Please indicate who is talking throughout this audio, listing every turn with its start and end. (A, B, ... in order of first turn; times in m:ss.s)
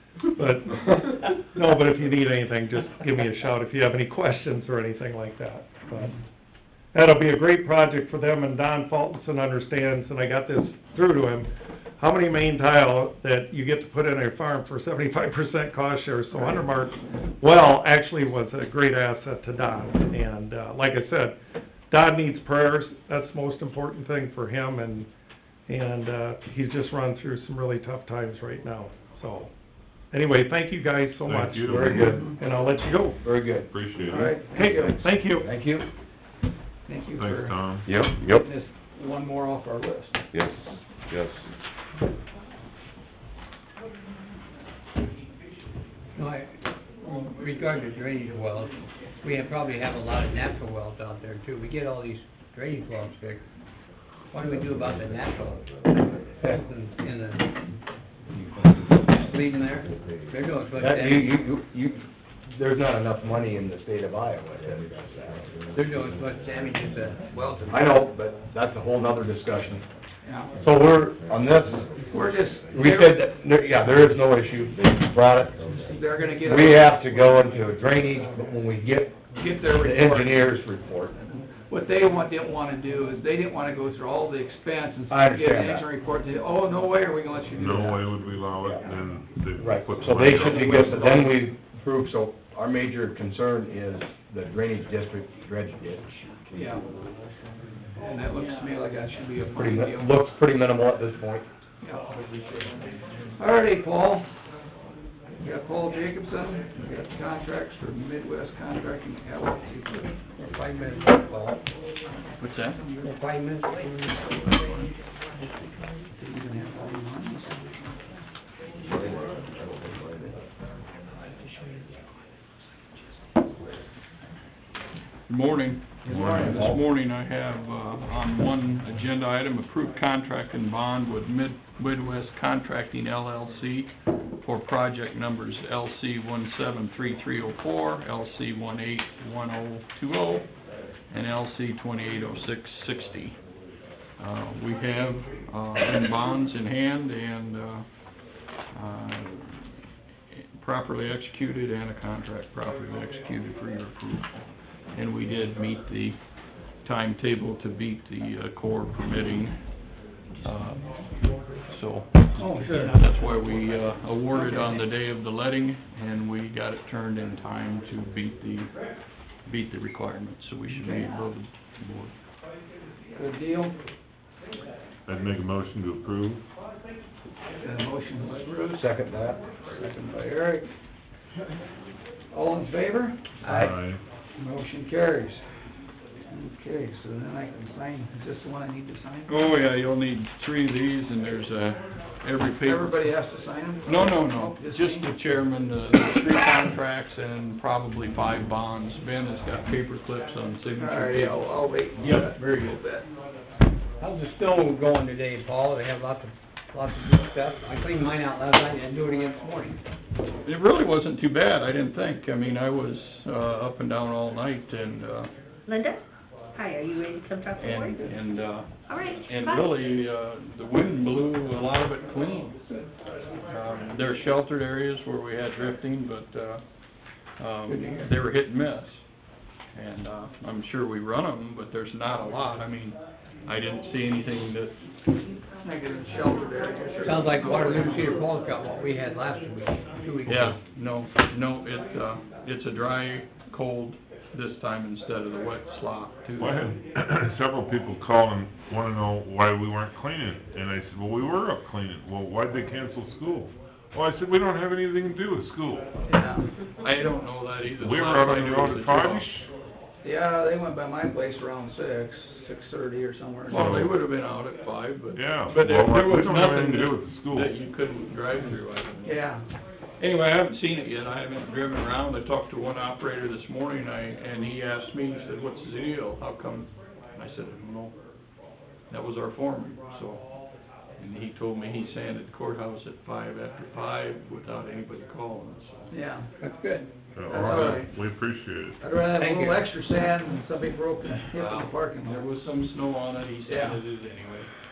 0:00.3-0:06.2 A
0:06.9-0:21.4 A
0:21.9-0:25.1 A
0:25.7-0:29.5 A
0:30.1-0:33.2 A
0:31.2-0:32.2 B
0:31.7-0:32.3 C
0:33.2-0:33.7 C
0:33.7-0:34.4 B
0:34.0-0:35.0 D
0:34.5-0:35.5 A
0:34.7-0:35.9 C
0:36.8-0:37.6 D
0:37.2-0:37.9 B
0:37.8-0:38.4 C
0:38.2-0:40.3 D
0:40.3-0:41.4 C
0:46.2-0:46.5 E
0:47.1-0:53.4 E
0:54.3-0:57.5 E
0:58.9-1:01.4 E
1:00.8-1:05.4 C
1:05.7-1:08.0 E
1:07.7-1:09.8 C
1:10.2-1:10.5 D
1:10.6-1:11.9 C
1:12.1-1:13.2 D
1:12.6-1:15.6 C
1:15.8-1:17.7 D
1:16.4-1:19.2 C
1:19.3-1:20.4 D
1:19.7-1:21.1 C
1:21.2-1:28.0 D
1:25.1-1:25.8 C
1:27.6-1:31.1 B
1:29.6-1:36.2 C
1:30.4-1:31.4 D
1:36.5-1:36.8 D
1:38.0-1:40.2 D
1:38.4-1:38.6 F
1:39.6-1:41.4 C
1:43.4-1:44.3 D
1:45.4-1:50.2 D
1:50.4-1:51.6 E
1:52.4-1:52.8 F
1:53.0-1:54.1 E
1:54.2-1:54.9 D
1:56.1-1:58.0 D
1:58.8-1:59.2 D
2:05.3-2:20.5 F
2:06.0-2:06.8 D
2:06.1-2:06.7 B
2:21.1-2:23.4 F
2:24.2-2:27.9 F
2:28.7-2:29.8 F
2:30.3-2:36.2 F
2:36.8-2:52.1 F
2:42.4-2:42.9 D
2:44.3-2:44.8 D
2:50.7-2:51.2 D
2:53.1-2:53.8 D
2:55.0-2:56.4 B
2:57.6-2:59.0 D
2:58.8-2:59.4 C
2:59.5-3:00.7 D
3:02.3-3:03.7 D
3:03.5-3:04.0 B
3:04.4-3:05.7 D
3:06.3-3:09.3 D
3:09.3-3:13.1 F
3:12.6-3:15.1 D
3:13.8-3:22.8 F
3:20.8-3:23.1 D
3:24.0-3:29.8 E
3:30.4-3:35.3 F
3:35.7-3:38.0 G
3:37.6-3:42.7 F
3:38.9-3:39.8 G
3:43.5-3:46.6 F
3:47.4-3:49.0 F
3:47.7-3:48.1 D
3:49.7-3:54.8 F
3:55.6-3:58.3 D
3:57.0-4:00.6 E
4:00.2-4:06.8 F
4:06.4-4:15.9 B
4:16.0-4:16.5 D
4:16.8-4:19.3 F
4:17.7-4:19.5 B
4:20.0-4:23.6 D
4:23.5-4:29.2 F
4:23.5-4:24.0 B
4:25.1-4:27.5 B
4:29.0-4:29.4 D
4:30.0-4:37.9 F
4:38.9-4:40.3 F
4:41.0-4:46.0 F
4:45.9-4:46.3 D
4:46.4-4:46.9 E
4:47.1-4:48.8 B
4:47.3-4:48.0 D
4:48.8-4:52.3 D
4:49.0-4:49.7 E
4:51.2-4:54.5 F
4:53.5-4:53.8 D